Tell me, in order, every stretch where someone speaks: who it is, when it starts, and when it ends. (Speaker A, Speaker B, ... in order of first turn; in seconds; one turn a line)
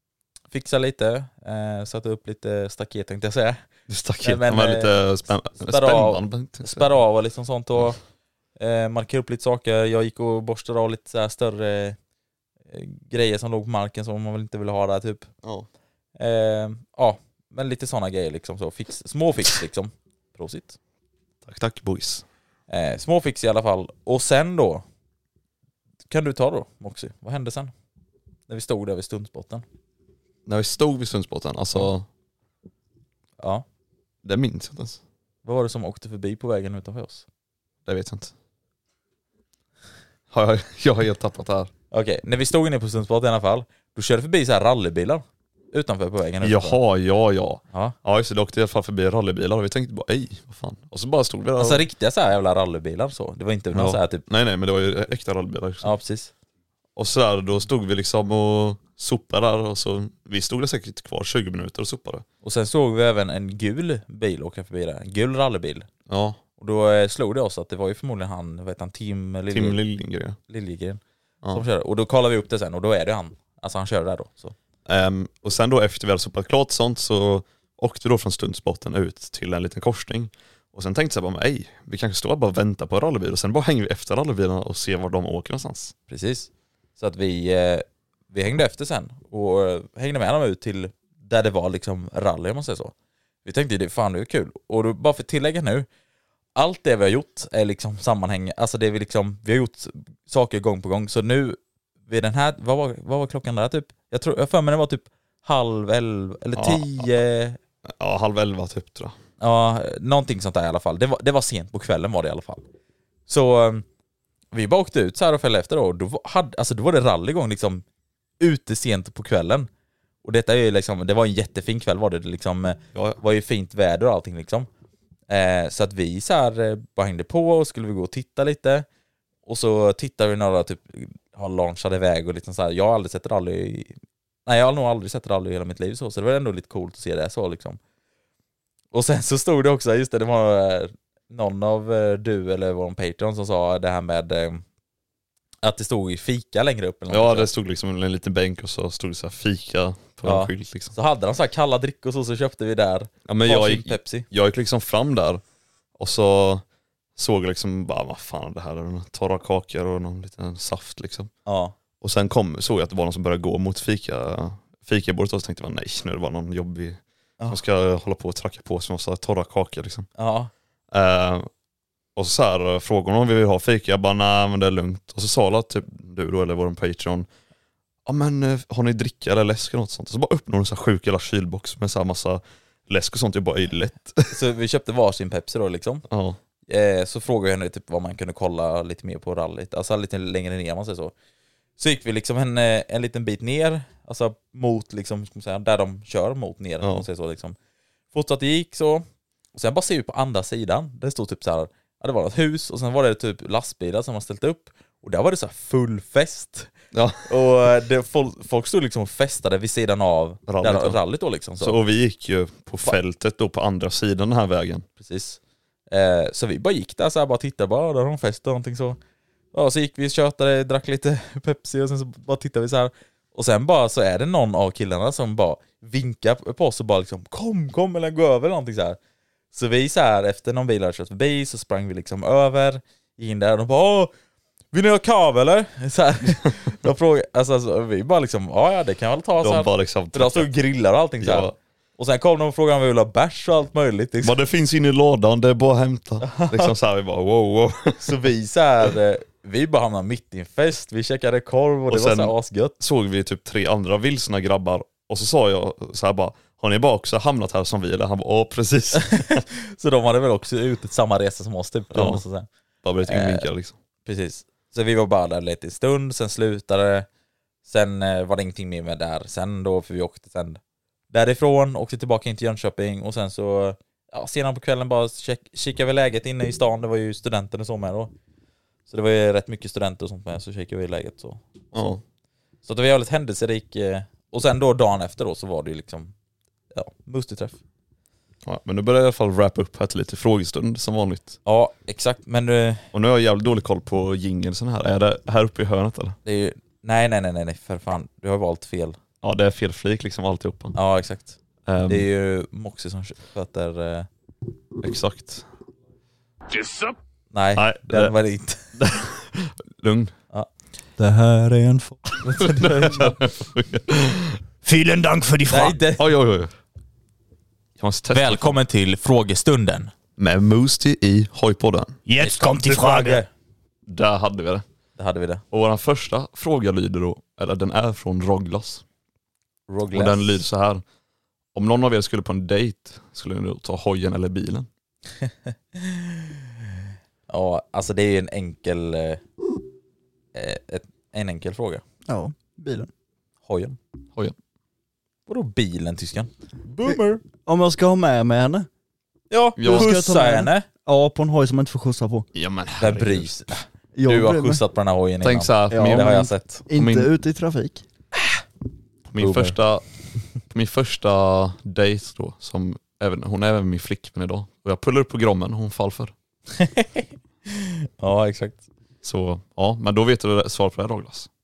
Speaker A: 0.5-3.6
Speaker B: 3.9-6.9
Speaker A: 4.2-5.1
Speaker A: 5.6-8.0
Speaker A: 8.6-12.0
Speaker A: 12.7-15.3
Speaker A: 16.2-20.8
Speaker B: 21.4-22.2
Speaker A: 22.7-24.8
Speaker A: 26.1-27.7
Speaker A: 28.5-29.6
Speaker B: 30.5-32.1
Speaker A: 33.4-33.6
Speaker B: 34.2-35.0
Speaker A: 35.4-37.3
Speaker B: 37.9-38.3
Speaker B: 40.3-41.7
Speaker A: 41.9-46.8
Speaker B: 46.4-51.8
Speaker A: 51.6-54.2
Speaker B: 53.7-55.9
Speaker A: 55.8-56.3
Speaker B: 57.0-62.2
Speaker A: 62.4-65.9
Speaker B: 66.1-66.4
Speaker A: 66.6-69.8
Speaker B: 69.5-70.4
Speaker A: 70.5-71.0
Speaker A: 71.5-74.5
Speaker B: 74.9-85.9
Speaker A: 86.1-92.9
Speaker A: 93.5-95.9
Speaker A: 96.5-107.6
Speaker B: 106.5-107.1
Speaker B: 107.9-109.2
Speaker A: 109.4-112.6
Speaker A: 113.3-113.8
Speaker A: 114.5-117.8
Speaker A: 118.4-119.7
Speaker A: 120.2-124.7
Speaker A: 125.3-128.9
Speaker A: 129.5-137.8
Speaker A: 138.9-144.6
Speaker A: 145.6-147.5
Speaker B: 147.1-150.9
Speaker A: 150.2-154.3
Speaker B: 153.3-155.4
Speaker B: 156.0-156.6
Speaker B: 157.2-161.3
Speaker A: 161.5-161.8
Speaker B: 162.0-170.1
Speaker A: 170.2-170.5
Speaker B: 170.9-171.5
Speaker B: 172.2-177.3
Speaker B: 178.1-184.4
Speaker A: 184.3-186.1
Speaker B: 186.1-186.4
Speaker A: 186.7-191.1
Speaker A: 191.8-197.6
Speaker A: 198.1-206.7
Speaker B: 206.9-207.4
Speaker A: 207.2-211.8
Speaker B: 210.5-211.0
Speaker B: 211.6-214.9
Speaker A: 215.0-219.0
Speaker A: 219.5-229.0
Speaker A: 229.5-234.1
Speaker A: 234.7-244.4
Speaker B: 239.4-240.5
Speaker B: 241.2-241.6
Speaker B: 244.2-248.2
Speaker A: 246.2-246.7
Speaker A: 248.0-252.8
Speaker B: 251.9-259.4
Speaker A: 259.1-262.5
Speaker B: 261.9-262.2
Speaker B: 262.8-263.8
Speaker A: 263.0-263.5
Speaker A: 264.1-267.1
Speaker A: 267.6-278.1
Speaker A: 278.9-281.9
Speaker B: 281.7-282.0
Speaker A: 282.6-286.1
Speaker A: 286.7-287.6
Speaker B: 288.5-291.4
Speaker A: 291.4-292.8
Speaker B: 292.9-296.2
Speaker A: 296.2-299.0
Speaker B: 299.2-300.8
Speaker A: 300.8-304.1
Speaker B: 301.7-302.1
Speaker B: 304.8-305.4
Speaker A: 307.3-308.7
Speaker B: 307.6-308.1
Speaker B: 308.8-310.1
Speaker C: 311.0-312.2
Speaker A: 312.2-313.1
Speaker B: 312.4-314.4
Speaker D: 314.6-315.8
Speaker A: 315.5-316.1
Speaker B: 316.0-316.5
Speaker B: 317.8-318.6
Speaker A: 318.1-319.9
Speaker B: 320.2-322.0
Speaker D: 322.1-323.2
Speaker A: 322.2-323.3
Speaker B: 323.9-324.6
Speaker A: 325.0-325.4
Speaker B: 325.5-328.8
Speaker A: 329.7-330.4
Speaker B: 329.9-330.8
Speaker B: 331.5-334.7
Speaker A: 335.3-336.4
Speaker A: 337.3-339.2
Speaker A: 340.3-341.8
Speaker C: 342.1-342.9
Speaker A: 343.4-343.8
Speaker A: 345.3-347.2
Speaker C: 346.9-348.7
Speaker A: 349.3-350.7
Speaker B: 349.6-349.9
Speaker C: 349.6-352.3
Speaker B: 352.4-353.4
Speaker A: 352.8-356.6
Speaker C: 353.9-354.6
Speaker B: 355.2-357.1
Speaker C: 355.7-357.8
Speaker B: 359.1-366.1
Speaker A: 359.2-359.6
Speaker A: 366.6-368.6
Speaker B: 369.0-371.3